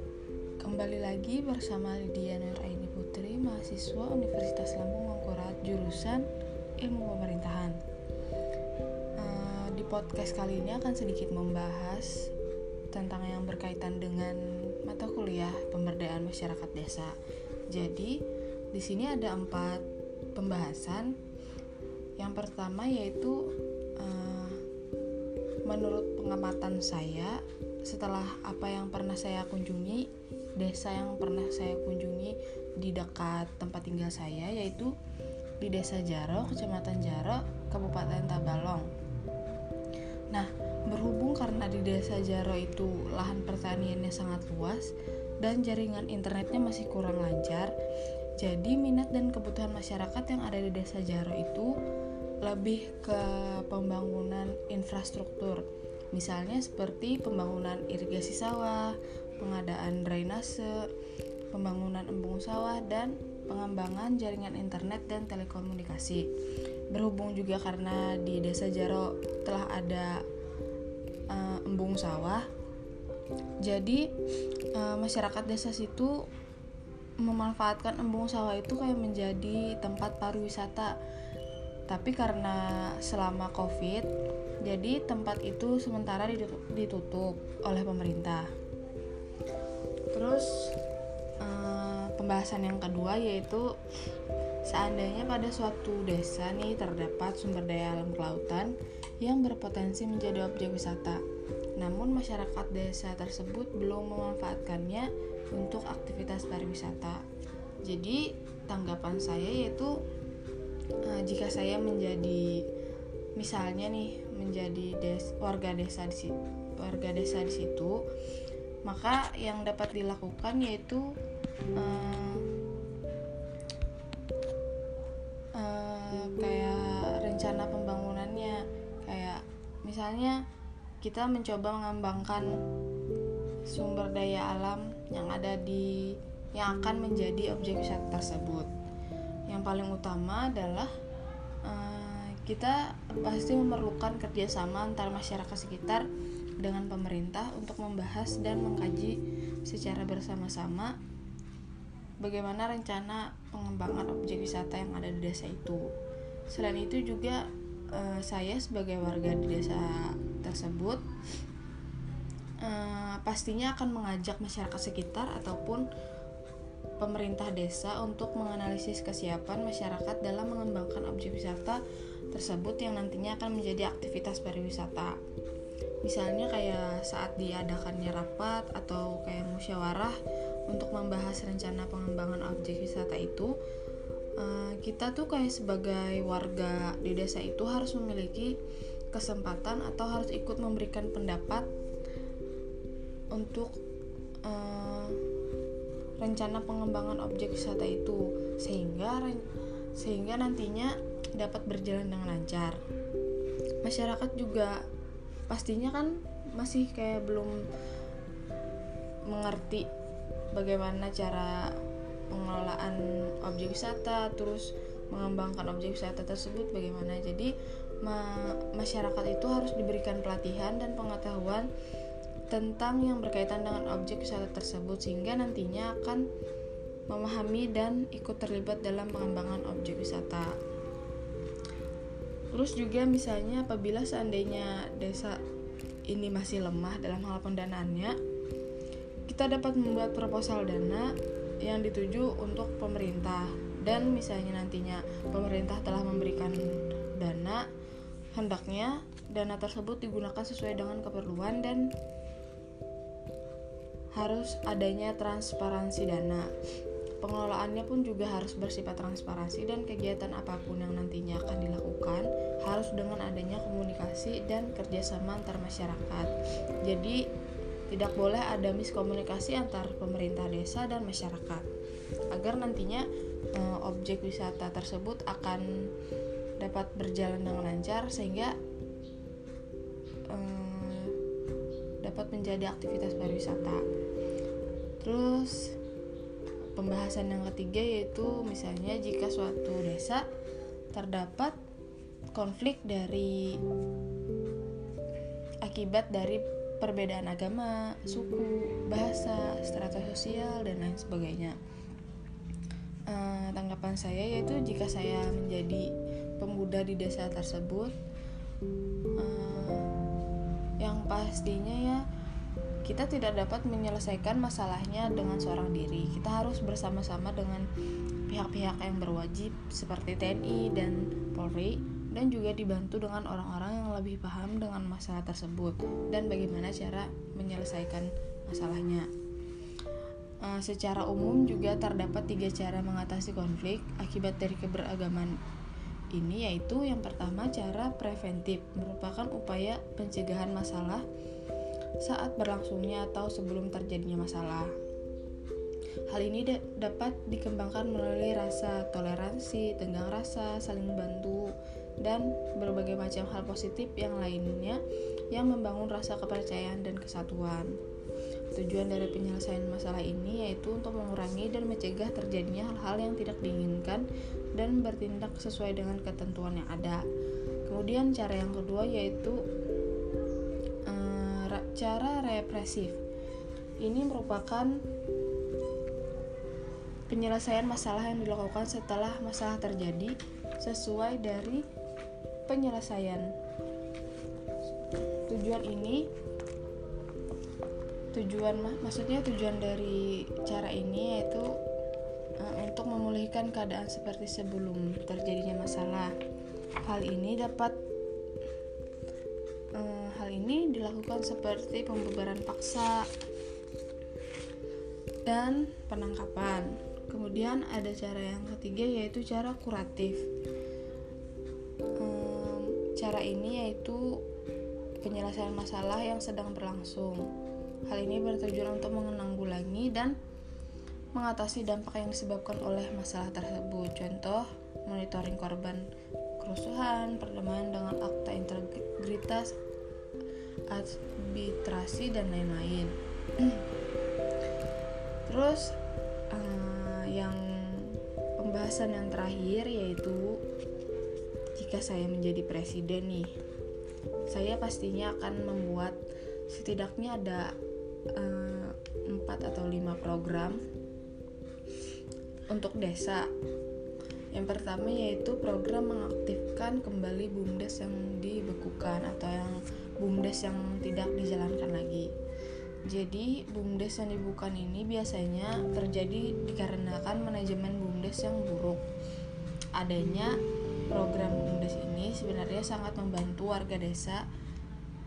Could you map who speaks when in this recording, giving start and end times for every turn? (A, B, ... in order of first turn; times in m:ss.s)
0:00.6-0:06.3 A
0:06.8-0:07.8 A
0:09.2-0:12.3 A
0:12.9-0:17.2 A
0:17.7-0:18.2 A
0:18.7-0:21.1 A
0:22.2-0:23.4 A
0:24.0-0:24.6 A
0:25.6-0:34.9 A
0:35.6-0:38.9 A
0:40.3-0:47.7 A
0:48.4-0:51.7 A
0:52.4-1:00.8 A
1:01.5-1:06.3 A
1:06.9-1:10.2 A
1:11.3-1:12.5 A
1:13.6-1:14.1 A
1:14.7-1:16.2 A
1:17.2-1:20.9 A
1:21.9-1:24.1 A
1:24.6-1:28.5 A
1:30.1-1:30.8 A
1:31.4-1:33.7 A
1:34.6-1:41.2 A
1:41.8-1:47.2 A
1:47.8-1:49.9 A
1:51.0-1:52.6 A
1:53.4-1:58.0 A
1:58.8-2:01.1 A
2:01.8-2:02.4 A
2:05.6-2:10.4 A
2:11.0-2:12.5 A
2:13.7-2:18.7 A
2:19.5-2:20.9 A
2:21.6-2:26.1 A
2:26.6-2:30.9 A
2:32.2-2:35.8 A
2:36.5-2:41.0 A
2:42.6-2:45.8 A
2:47.0-2:51.8 A
2:52.3-2:55.2 A
2:56.0-3:00.2 A
3:00.7-3:03.5 A
3:04.4-3:08.5 A
3:09.1-3:11.7 A
3:13.3-3:13.7 A
3:14.4-3:15.2 A
3:16.2-3:19.4 A
3:20.0-3:22.8 A
3:23.8-3:24.8 A
3:25.5-3:27.6 A
3:29.3-3:29.9 A
3:30.5-3:31.7 A
3:32.3-3:37.5 A
3:38.0-3:41.7 A
3:42.5-3:46.2 A
3:47.1-3:50.5 A
3:52.5-3:55.4 A
3:56.1-3:58.1 A
3:59.3-4:01.1 A
4:01.6-4:07.6 A
4:08.3-4:11.9 A
4:14.1-4:16.5 A
4:17.2-4:26.3 A
4:26.8-4:27.2 A
4:27.9-4:31.6 A
4:32.3-4:35.7 A
4:36.6-4:38.6 A
4:40.3-4:41.2 A
4:42.0-4:43.8 A
4:45.0-4:45.8 A
4:46.8-4:50.3 A
4:50.9-4:51.6 A
4:52.3-4:53.6 A
4:55.6-5:01.6 A
5:03.1-5:07.9 A
5:09.2-5:09.9 A
5:10.8-5:12.0 A
5:12.8-5:17.7 A
5:18.3-5:29.1 A
5:30.4-5:35.4 A
5:36.1-5:41.0 A
5:42.0-5:44.7 A
5:46.1-5:54.8 A
5:55.3-5:57.7 A
5:58.5-6:07.0 A
6:07.6-6:09.4 A
6:10.9-6:13.0 A
6:13.8-6:14.8 A
6:17.1-6:21.6 A
6:22.5-6:23.3 A
6:25.2-6:26.1 A
6:28.1-6:31.5 A
6:32.4-6:36.1 A
6:36.8-6:37.8 A
6:39.8-6:43.0 A
6:45.2-6:50.2 A
6:52.0-6:54.0 A
6:55.0-6:57.2 A
6:57.9-7:00.2 A
7:01.1-7:05.8 A
7:06.4-7:09.5 A
7:10.7-7:13.6 A
7:15.2-7:15.8 A
7:16.3-7:20.4 A
7:21.6-7:23.3 A
7:24.3-7:26.0 A
7:26.5-7:27.5 A
7:28.1-7:30.6 A
7:32.5-7:33.3 A
7:34.3-7:42.1 A
7:42.9-7:48.8 A
7:49.8-7:50.3 A
7:50.9-7:54.2 A